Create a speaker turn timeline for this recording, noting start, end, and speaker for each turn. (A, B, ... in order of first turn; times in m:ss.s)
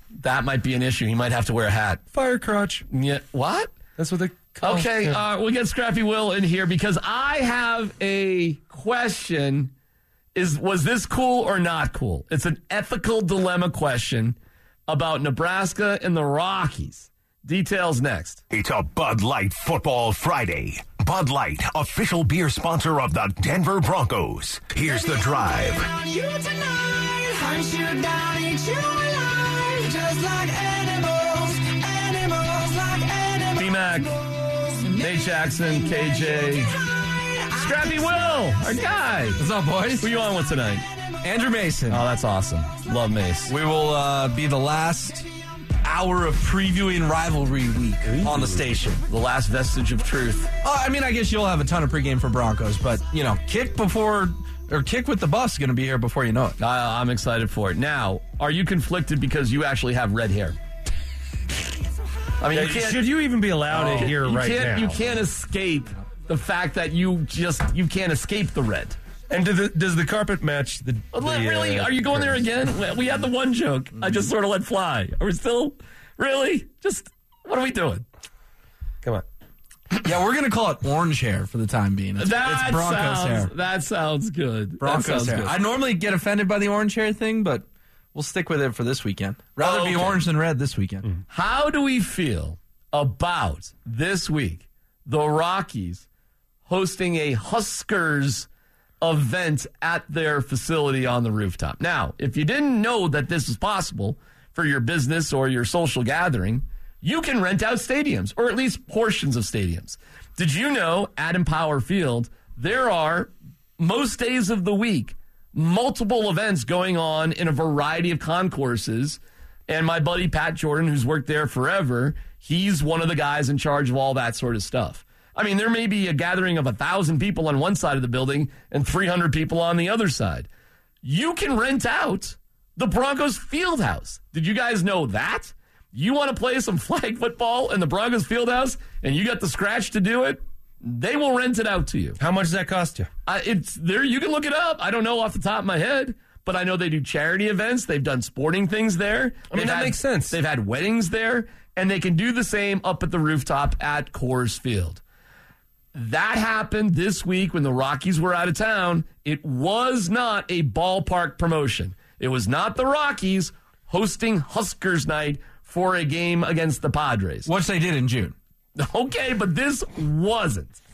0:00.2-0:02.0 A
0:02.1-0:02.8 B
0:02.9-0:03.7 A
0:04.0-0:05.2 B
0:04.6-0:09.7 A
0:10.3-0:14.4 A
0:14.9-0:18.4 A
0:18.5-0:25.9 C
0:24.8-0:33.9 D
0:33.5-0:34.2 A
0:34.7-0:38.8 D
0:35.0-0:36.7 A
0:37.5-0:39.4 A
0:39.4-0:40.1 E
0:40.0-0:40.8 A
0:41.2-0:42.0 E
0:41.9-0:43.5 A
0:43.5-0:45.2 E
0:45.8-0:49.0 E
0:48.2-0:48.6 B
0:49.1-0:50.5 A
0:50.6-0:56.6 E
0:56.6-1:00.6 A
1:02.4-1:03.0 A
1:02.5-1:05.0 B
1:03.7-1:09.0 A
1:09.3-1:12.4 B
1:11.1-1:18.0 A
1:20.0-1:23.5 E
1:22.2-1:25.5 A
1:24.8-1:31.2 E
1:29.6-1:30.2 A
1:31.3-1:36.0 A
1:36.6-1:38.5 A
1:39.0-2:10.5 A
2:11.0-2:22.2 A
2:22.2-2:23.1 B
2:23.2-2:35.0 A
2:29.5-2:30.4 B
2:35.9-2:47.5 A
2:47.5-2:48.3 E
2:48.8-2:50.8 A